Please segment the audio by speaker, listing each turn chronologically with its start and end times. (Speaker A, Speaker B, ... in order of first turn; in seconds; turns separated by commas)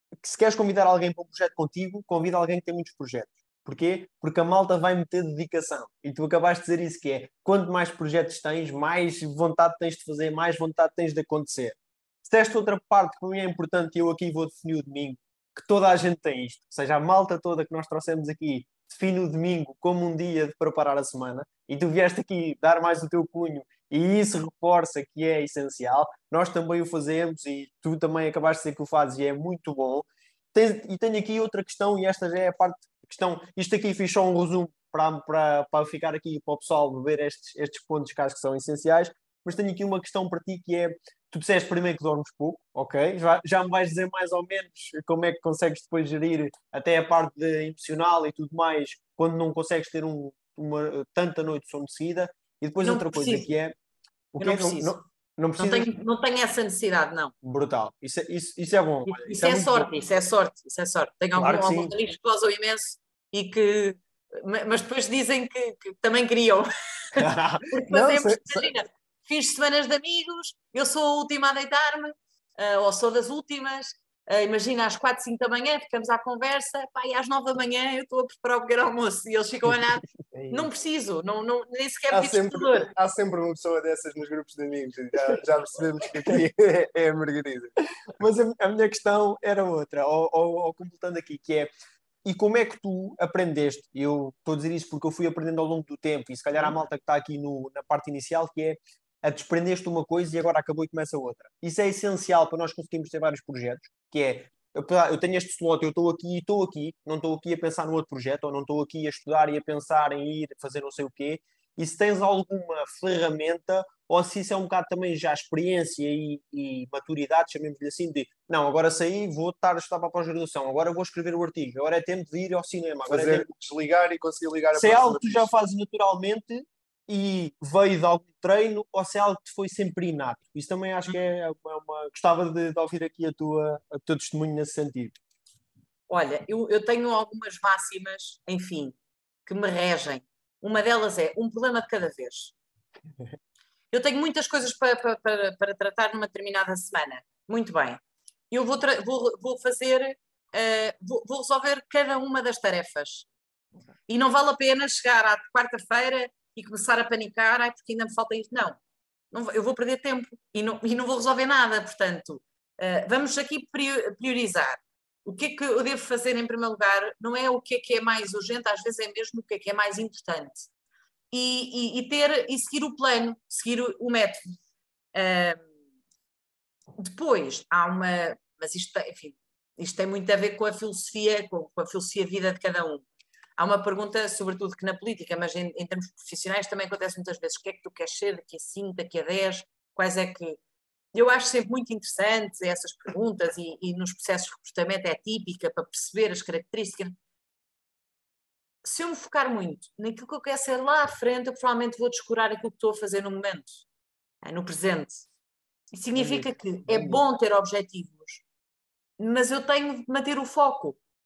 Speaker A: 0.2-53.8, Speaker B: 52.8-53.5, Speaker A: 54.3-55.9, Speaker B: 54.4-55.0, Speaker B: 55.5-57.3, Speaker A: 57.4-60.0, Speaker B: 59.0-82.9, Speaker A: 61.4-61.9, Speaker A: 67.2-68.7, Speaker A: 80.3-80.7, Speaker C: 82.1-87.8, Speaker A: 88.1-91.7, Speaker A: 92.2-123.5, Speaker C: 123.0-125.5, Speaker A: 124.7-135.2, Speaker B: 136.1-142.5, Speaker B: 143.9-153.2, Speaker B: 154.1-158.8, Speaker B: 159.3-170.7, Speaker B: 171.3-174.4, Speaker B: 175.1-175.6, Speaker B: 177.0-183.0, Speaker B: 183.6-190.6, Speaker B: 191.1-197.1, Speaker B: 198.8-203.8, Speaker B: 204.4-205.3, Speaker B: 205.9-208.4, Speaker A: 206.1-207.2, Speaker B: 209.2-211.0